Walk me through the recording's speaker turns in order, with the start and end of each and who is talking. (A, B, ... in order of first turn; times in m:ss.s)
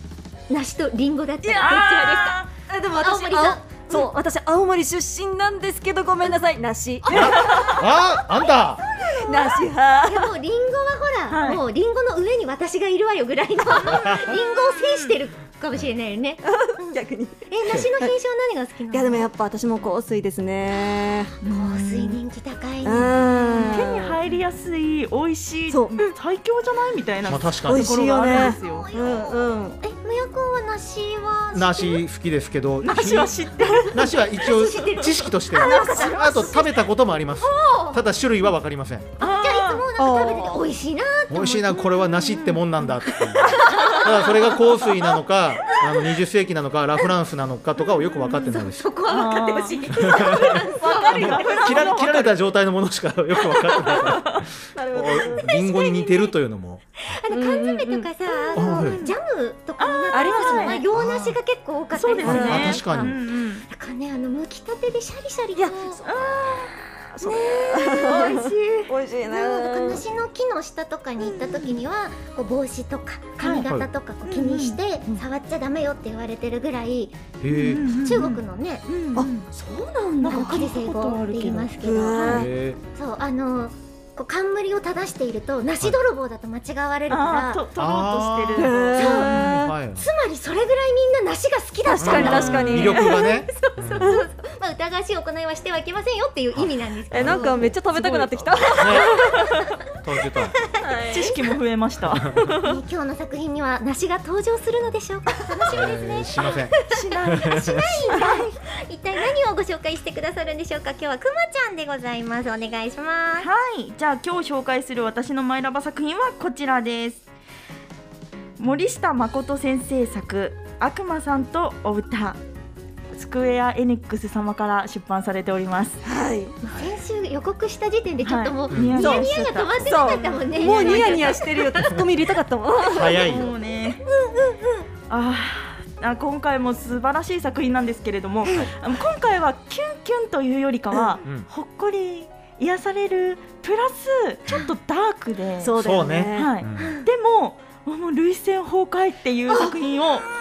0:00.5-0:04.1 A
0:01.4-0:02.5 B
0:02.7-0:07.8 C
0:07.1-0:19.3 A
0:07.1-0:08.8 D
0:09.2-0:10.3 C
0:11.3-0:11.6 B
0:13.7-0:15.2 B
0:14.0-0:14.2 D
0:16.5-0:18.1 C
0:18.9-0:21.3 C
0:21.4-0:22.2 B
0:21.5-0:24.0 A
0:22.8-0:24.2 C
0:23.7-0:28.9 B
0:25.7-0:26.0 C
0:27.3-0:27.9 D
0:27.7-0:29.8 C
0:28.2-0:32.0 A
0:31.5-0:39.1 D
0:32.8-0:34.1 B
0:34.0-0:36.7 A
0:35.6-0:36.6 B
0:37.4-0:38.0 A
0:39.2-0:39.9 B
0:39.2-0:41.9 A
0:40.0-0:40.6 C
0:41.3-0:48.9 D
0:42.3-0:42.6 B
0:43.5-0:44.6 A
0:47.9-0:51.4 A
0:49.1-0:52.4 B
0:50.0-0:56.8 D
0:50.2-0:52.0 C
0:53.8-0:54.2 C
0:54.1-0:54.4 B
0:54.8-0:55.5 C
0:55.2-0:56.4 A
0:57.1-1:08.4 A
0:57.3-0:58.6 C
0:58.6-0:59.0 D
0:58.7-0:59.1 B
0:59.8-1:00.8 B
1:00.1-1:00.8 C
1:00.9-1:01.4 D
1:01.9-1:03.7 B
1:02.2-1:03.2 D
1:02.2-1:02.8 C
1:05.6-1:06.0 C
1:06.0-1:08.9 B
1:07.2-1:10.0 C
1:09.3-1:17.2 A
1:13.4-1:13.7 B
1:13.6-1:13.9 D
1:14.2-1:15.2 B
1:17.4-1:17.8 D
1:17.6-1:19.5 B
1:17.8-1:18.8 A
1:19.5-1:27.6 A
1:20.2-1:21.7 B
1:21.8-1:22.5 C
1:22.3-1:22.8 D
1:27.1-1:29.2 B
1:27.8-1:30.1 D
1:28.6-1:29.8 C
1:29.0-1:29.4 A
1:30.0-1:37.7 A
1:31.9-1:33.2 C
1:32.0-1:34.2 D
1:32.2-1:32.9 B
1:34.0-1:34.3 C
1:36.6-1:37.5 D
1:37.1-1:39.3 C
1:37.6-1:39.6 B
1:38.8-1:39.2 D
1:40.0-1:40.6 D
1:40.4-1:41.3 A
1:40.8-1:41.4 C
1:41.1-1:42.7 B
1:42.2-1:42.4 D
1:42.6-1:53.5 A
1:45.7-1:46.8 D
1:46.9-1:48.5 B
1:47.4-1:48.0 D
1:53.4-1:57.2 B
1:58.6-2:02.4 B
2:03.1-2:06.0 B
2:06.0-2:06.6 C
2:06.6-2:11.8 A
2:08.2-2:11.4 B
2:08.7-2:09.2 D
2:09.8-2:13.2 C
2:12.9-2:13.5 D
2:12.9-2:14.0 B
2:14.0-2:14.9 A
2:15.1-2:25.8 B
2:25.6-2:26.5 C
2:25.8-2:27.0 D
2:26.3-2:30.3 B
2:26.8-2:27.1 A